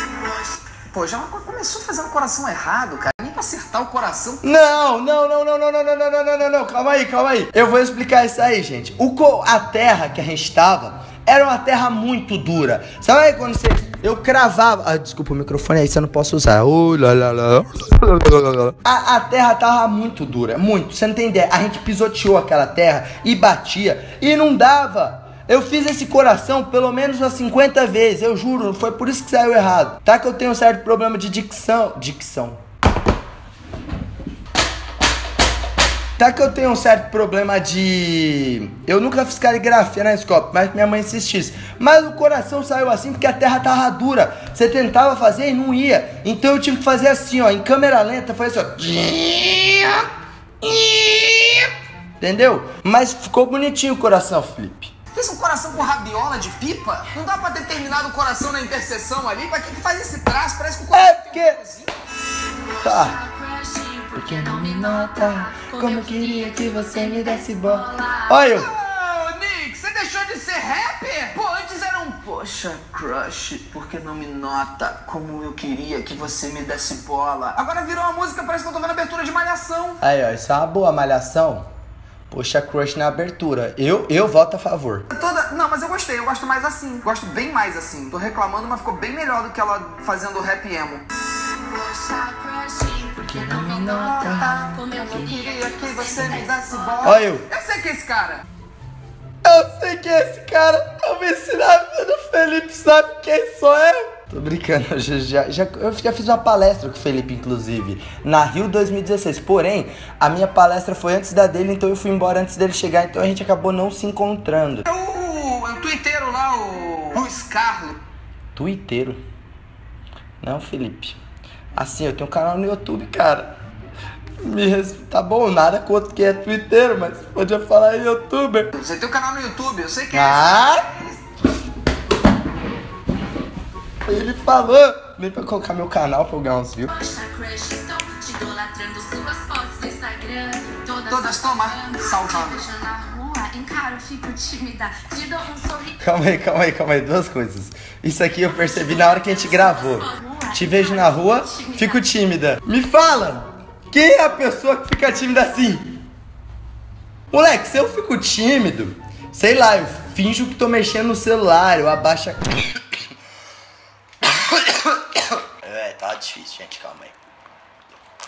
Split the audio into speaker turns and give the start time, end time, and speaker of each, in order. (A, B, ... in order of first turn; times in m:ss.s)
0:00.9-0:04.4 A
0:04.4-0:32.6 B
0:36.2-0:49.4 B
0:49.1-0:50.0 A
0:50.6-0:51.7 A
0:52.2-0:54.9 B
0:55.1-1:01.9 A
1:00.9-1:01.6 B
1:02.8-1:08.4 C
1:02.8-1:03.2 B
1:04.2-1:08.7 B
1:08.5-1:20.0 A
1:20.0-1:21.7 B
1:22.3-1:25.1 B
1:25.1-1:31.0 A
1:31.6-1:37.2 C
1:33.2-1:35.3 B
1:34.0-1:38.4 A
1:37.0-1:37.4 B
1:39.4-1:54.9 B
1:54.9-1:58.0 A
1:58.6-1:59.2 B
2:00.4-2:01.2 B
2:01.8-2:03.5 B
2:04.4-2:08.7 B
2:08.7-2:11.2 A
2:10.1-2:10.8 B
2:14.0-2:16.9 B
2:16.9-2:26.0 C
2:21.1-2:22.6 A
2:26.0-2:36.0 B
2:28.5-2:32.0 C
2:37.3-2:43.1 B
2:44.2-2:47.1 B